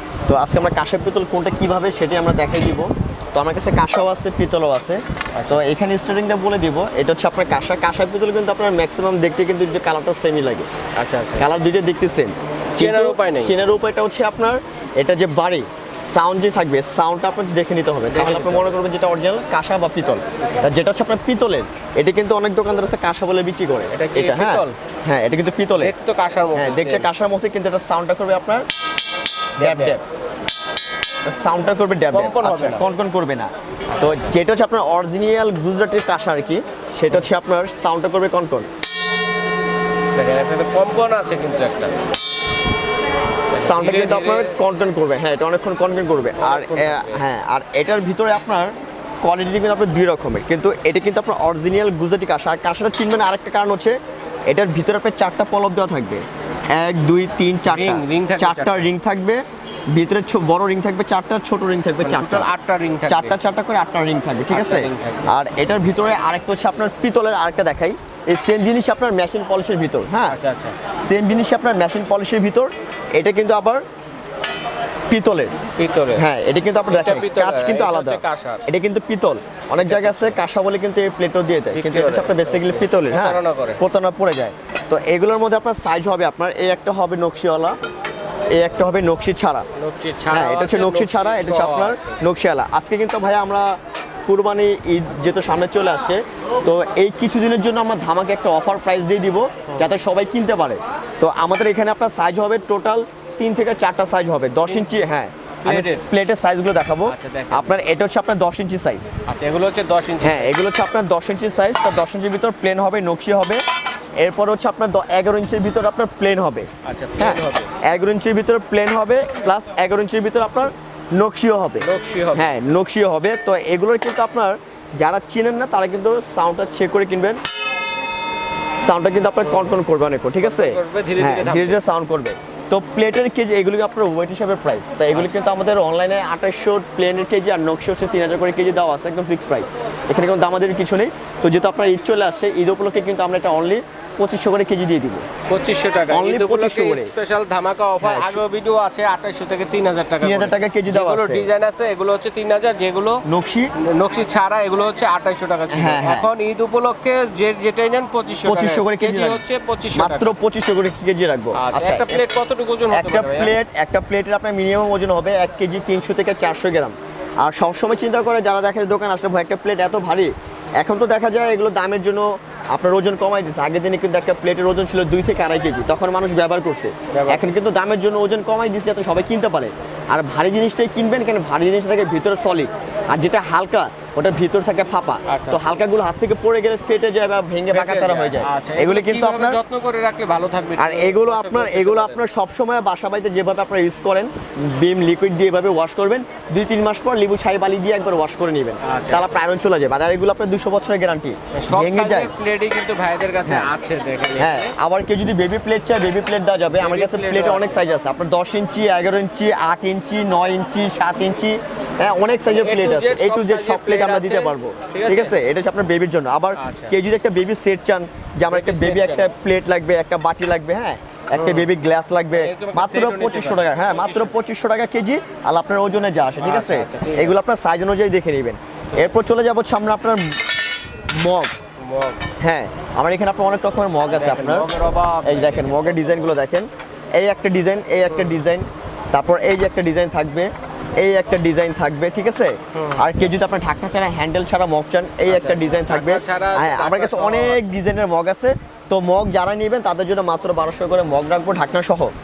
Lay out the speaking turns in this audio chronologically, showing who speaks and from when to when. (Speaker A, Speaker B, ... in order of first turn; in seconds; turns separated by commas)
Speaker A: 0.3-10.7, Speaker B: 5.3-5.6, Speaker B: 10.9-11.5, Speaker A: 11.4-25.9, Speaker B: 12.8-13.5, Speaker B: 18.1-18.7, Speaker B: 23.9-24.7, Speaker B: 25.8-27.1, Speaker A: 26.5-28.6, Speaker B: 29.6-30.0, Speaker A: 29.6-30.0, Speaker A: 31.2-38.7, Speaker B: 32.1-32.9, Speaker B: 33.9-34.2, Speaker B: 40.1-41.9, Speaker B: 43.5-44.5, Speaker A: 43.5-62.5, Speaker B: 46.4-47.2, Speaker B: 57.6-58.9, Speaker B: 62.0-63.4, Speaker A: 63.1-70.4, Speaker B: 64.5-65.3, Speaker B: 70.3-70.8, Speaker A: 71.0-73.8, Speaker A: 75.1-75.5, Speaker B: 75.8-76.2, Speaker A: 76.2-87.8, Speaker B: 76.9-78.6, Speaker B: 79.7-80.4, Speaker B: 81.7-83.8, Speaker A: 88.5-89.7, Speaker B: 89.8-92.2, Speaker A: 90.3-109.0, Speaker B: 104.6-104.9, Speaker B: 105.6-106.0, Speaker B: 107.0-107.8, Speaker B: 109.3-110.6, Speaker A: 110.2-113.6, Speaker A: 114.2-127.4, Speaker B: 116.8-117.7, Speaker B: 121.8-122.7, Speaker A: 128.8-145.2, Speaker B: 129.4-129.8, Speaker B: 130.4-131.8, Speaker B: 145.5-153.2, Speaker A: 146.1-147.1, Speaker A: 148.0-148.4, Speaker A: 150.2-151.5, Speaker A: 153.3-153.7, Speaker B: 153.8-160.3, Speaker A: 155.7-156.3, Speaker A: 158.4-159.4, Speaker A: 159.9-162.2, Speaker B: 161.5-163.6, Speaker A: 162.9-189.6, Speaker B: 177.1-177.5, Speaker B: 185.2-185.8, Speaker B: 187.7-192.2, Speaker A: 190.8-202.3, Speaker B: 198.8-199.4, Speaker B: 201.5-204.7, Speaker A: 203.4-203.7, Speaker A: 204.4-230.4, Speaker B: 206.8-207.8, Speaker B: 212.5-215.4, Speaker B: 216.6-216.9, Speaker B: 218.5-219.3, Speaker B: 221.3-221.7, Speaker B: 222.3-224.3, Speaker B: 226.4-227.3, Speaker A: 231.1-231.5, Speaker B: 231.8-232.2, Speaker A: 232.4-234.7, Speaker B: 234.1-236.3, Speaker A: 235.2-252.1, Speaker B: 238.1-238.4, Speaker B: 242.7-243.0, Speaker B: 245.3-247.8